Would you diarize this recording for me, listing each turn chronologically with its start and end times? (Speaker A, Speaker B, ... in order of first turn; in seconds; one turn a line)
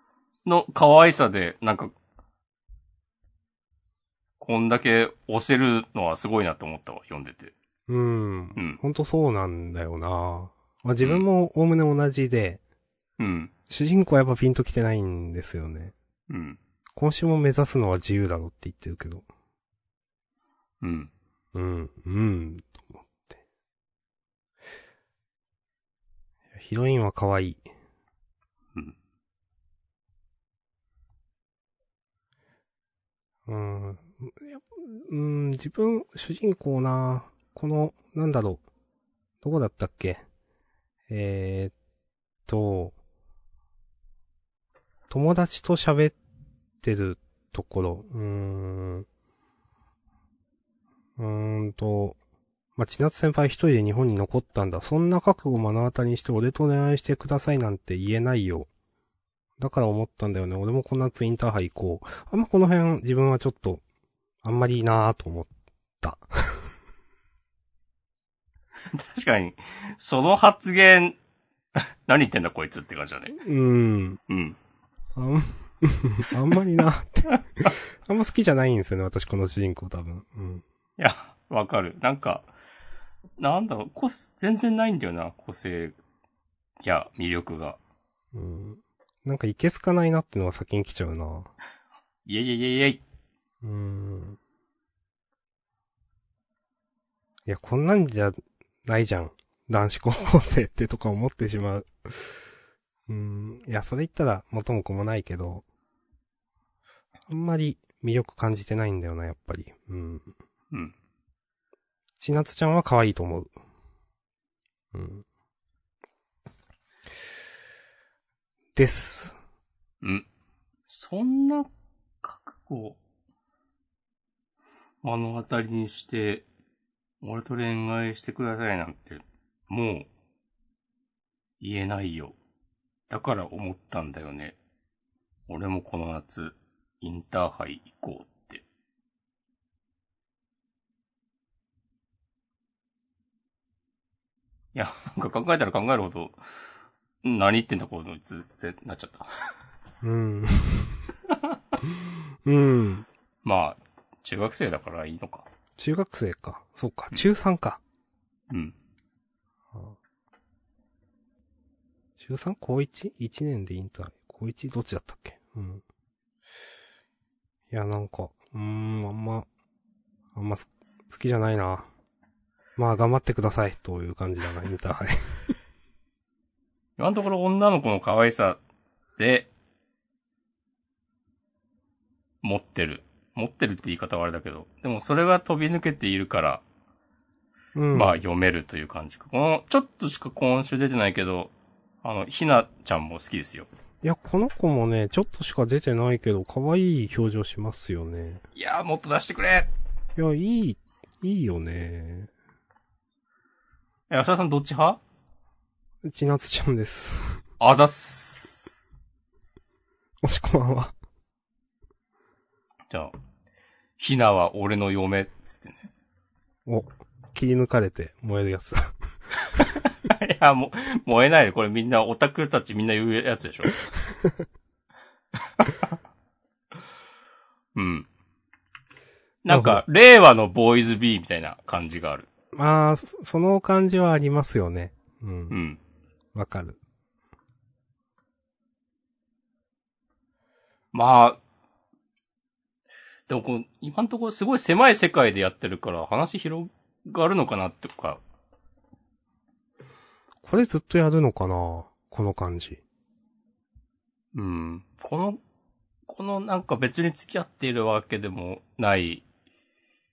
Speaker A: 0.5-1.9
Speaker A: 4.4-7.5
Speaker B: 7.9-12.6
Speaker A: 11.0-11.3
Speaker A: 13.2-13.5
Speaker B: 13.7-15.9
Speaker A: 16.3-16.6
Speaker B: 16.9-19.3
Speaker A: 20.8-21.1
Speaker B: 21.5-23.4
Speaker B: 26.5-27.6
Speaker B: 33.5-38.6
Speaker B: 39.4-40.2
Speaker B: 41.1-41.7
Speaker B: 42.5-43.0
Speaker B: 45.1-46.2
Speaker B: 46.8-49.1
Speaker B: 51.2-52.2
Speaker B: 52.8-58.7
Speaker B: 59.6-63.8
Speaker B: 64.4-66.6
Speaker A: 68.9-71.2
Speaker A: 71.8-73.4
Speaker B: 73.4-74.2
Speaker A: 74.3-74.6
Speaker B: 75.2-80.6
Speaker A: 81.0-82.5
Speaker A: 83.4-86.0
Speaker A: 86.8-87.8
Speaker B: 88.3-91.5
Speaker A: 92.3-93.0
Speaker B: 93.6-94.4
Speaker B: 97.5-102.4
Speaker B: 103.1-105.6
Speaker B: 107.3-110.3
Speaker B: 112.2-113.5
Speaker B: 114.9-115.2
Speaker B: 118.8-119.4
Speaker A: 120.9-121.7
Speaker A: 122.2-123.0
Speaker A: 125.0-126.5
Speaker A: 127.2-130.1
Speaker A: 131.6-132.4
Speaker A: 133.1-134.6
Speaker A: 135.5-138.6
Speaker A: 144.7-146.4
Speaker A: 147.2-149.3
Speaker B: 150.0-151.0
Speaker B: 151.8-153.1
Speaker A: 153.4-155.5
Speaker B: 155.8-157.8
Speaker A: 158.5-158.8
Speaker B: 162.2-165.8
Speaker B: 167.7-169.5
Speaker B: 170.3-171.9
Speaker B: 172.8-175.4
Speaker A: 177.0-178.6
Speaker A: 179.2-179.5
Speaker A: 182.4-186.6
Speaker B: 187.8-188.2
Speaker A: 187.9-191.5
Speaker A: 192.0-193.7
Speaker B: 194.0-198.4
Speaker A: 198.6-199.7
Speaker B: 200.2-202.3
Speaker A: 204.1-205.0
Speaker B: 206.0-207.4
Speaker A: 207.6-208.7
Speaker B: 210.2-210.9
Speaker A: 214.0-215.9
Speaker B: 216.7-218.9
Speaker A: 219.6-223.8
Speaker A: 225.6-225.9
Speaker A: 227.8-228.1
Speaker A: 229.4-232.3
Speaker B: 229.5-229.8
Speaker B: 232.5-235.6
Speaker A: 235.5-235.8
Speaker B: 236.3-236.8
Speaker A: 240.9-241.4
Speaker A: 243.3-248.2
Speaker B: 250.4-252.8
Speaker A: 254.3-255.4
Speaker A: 256.1-259.2